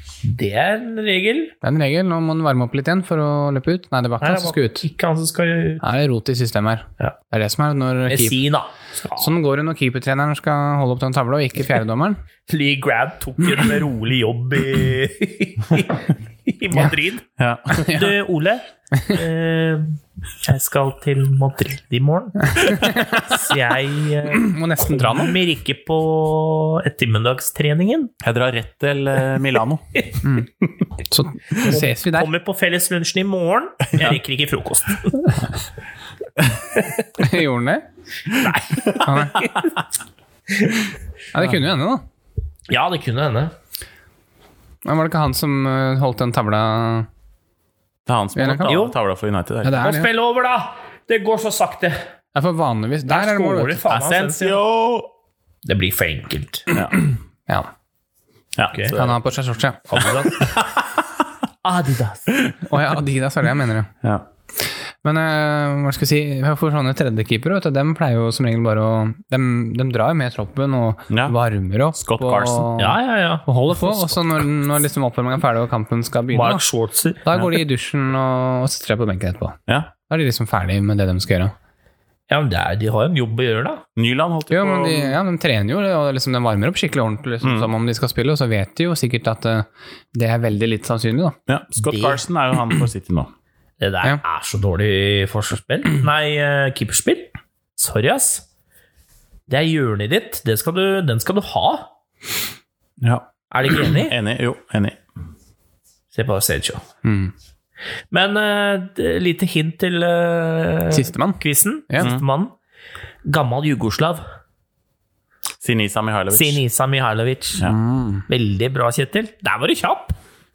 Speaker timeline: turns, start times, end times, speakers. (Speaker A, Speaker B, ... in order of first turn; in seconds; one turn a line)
Speaker A: 0.2-1.5
Speaker B: 1.6-4.8
Speaker A: 4.2-5.8
Speaker B: 5.8-8.4
Speaker A: 8.1-9.3
Speaker B: 9.2-12.2
Speaker A: 12.5-17.3
Speaker C: 17.4-18.0
Speaker A: 17.8-28.1
Speaker B: 17.8-18.1
Speaker B: 22.5-23.3
Speaker B: 24.3-25.3
Speaker C: 28.2-29.8
Speaker B: 30.2-30.5
Speaker B: 31.0-32.3
Speaker A: 31.6-35.4
Speaker A: 36.7-37.0
Speaker B: 37.2-37.8
Speaker A: 38.3-39.7
Speaker B: 39.0-39.5
Speaker A: 40.5-40.9
Speaker B: 41.3-42.0
Speaker A: 42.7-43.5
Speaker B: 44.8-47.1
Speaker C: 48.0-49.9
Speaker B: 48.4-48.7
Speaker A: 48.6-49.0
Speaker B: 49.6-50.1
Speaker A: 49.7-52.0
Speaker B: 52.3-53.8
Speaker A: 53.1-54.6
Speaker C: 53.9-55.1
Speaker A: 55.6-56.7
Speaker C: 56.7-57.0
Speaker B: 57.0-57.7
Speaker C: 58.5-59.2
Speaker A: 58.7-59.0
Speaker B: 58.9-60.1
Speaker A: 59.9-60.6
Speaker A: 61.6-62.4
Speaker B: 62.6-63.9
Speaker B: 65.0-76.6
Speaker C: 71.1-71.3
Speaker C: 71.9-72.7
Speaker A: 72.8-73.5
Speaker A: 76.3-77.2
Speaker B: 77.2-81.5
Speaker A: 82.3-83.8
Speaker C: 84.0-85.2
Speaker B: 84.5-91.4
Speaker C: 87.4-87.7
Speaker C: 91.5-93.3
Speaker A: 91.8-92.2
Speaker A: 93.8-98.4
Speaker A: 99.5-101.9
Speaker C: 103.0-105.0
Speaker A: 103.5-104.2
Speaker A: 106.1-106.8
Speaker B: 107.0-107.3
Speaker A: 108.1-112.5
Speaker B: 110.9-112.1
Speaker A: 113.2-114.2
Speaker C: 115.6-116.6
Speaker A: 116.3-117.6
Speaker B: 117.6-118.2
Speaker A: 118.3-120.2